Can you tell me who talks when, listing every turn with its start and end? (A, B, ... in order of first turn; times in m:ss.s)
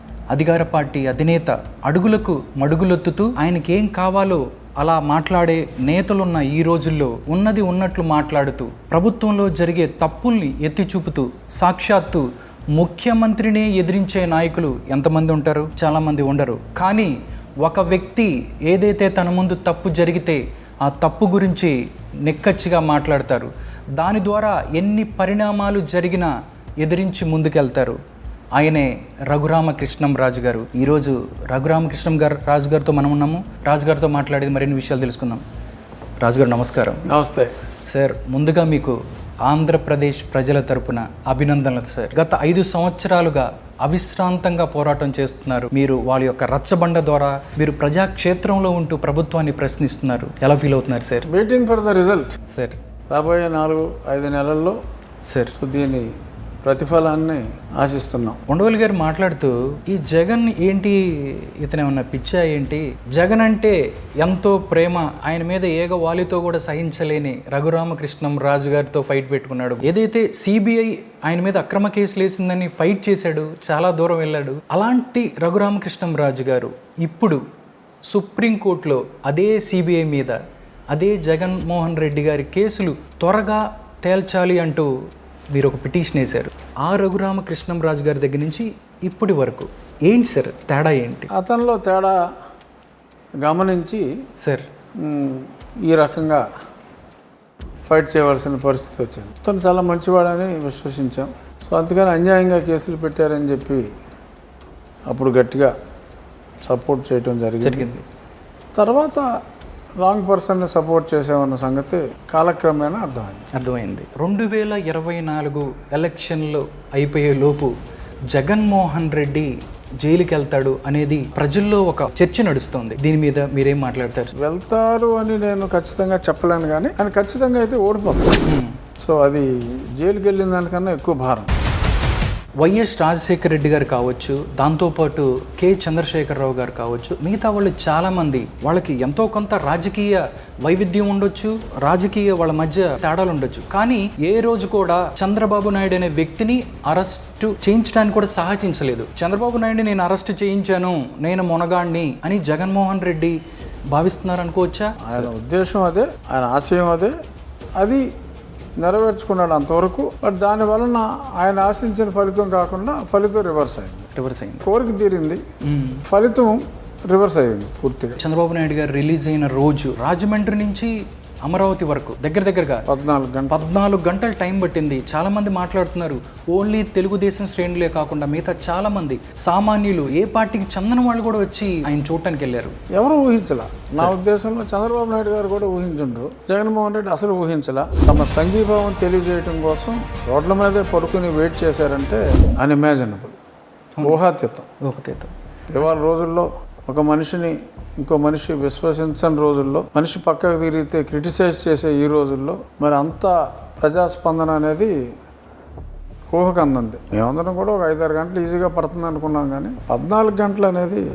0:00.3-0:28.0 A
0:28.5-0:35.4 A
0:36.2-0:37.1 A
0:37.1-0:37.5 B
0:37.9-0:51.3 A
0:51.3-0:52.4 B
0:52.5-0:52.8 A
0:53.1-0:54.8 B
0:55.2-0:55.5 A
0:55.5-0:56.1 B
0:56.6-0:58.4 B
0:58.5-1:17.4 A
1:18.0-1:24.9 A
1:25.5-1:31.3 A
1:31.3-1:32.2 B
1:33.4-1:34.0 B
1:34.4-1:34.7 A
1:35.0-1:36.4 B
1:37.8-1:43.8 B
1:45.1-1:45.7 B
1:46.6-1:47.9 B
1:47.6-1:48.0 A
1:48.8-1:49.2 B
1:50.0-1:53.4 B
1:53.5-1:57.7 A
1:58.3-2:04.3 A
2:04.4-2:08.4 B
2:08.4-2:08.8 A
2:09.0-2:11.5 B
2:12.6-2:33.4 A
2:33.9-2:35.3 A
2:35.0-2:37.1 B
2:37.8-2:38.0 B
2:38.8-2:44.1 B
2:44.1-2:44.6 A
2:44.6-2:45.4 B
2:45.6-2:46.0 A
2:46.0-2:48.2 B
2:48.2-2:50.9 A
2:51.4-2:52.8 A
2:52.9-2:53.6 B
2:53.5-3:02.8 A
3:02.9-3:13.4 B
3:14.0-3:14.7 B
3:14.8-3:15.3 A
3:15.7-3:24.9 B
3:26.3-3:31.0 B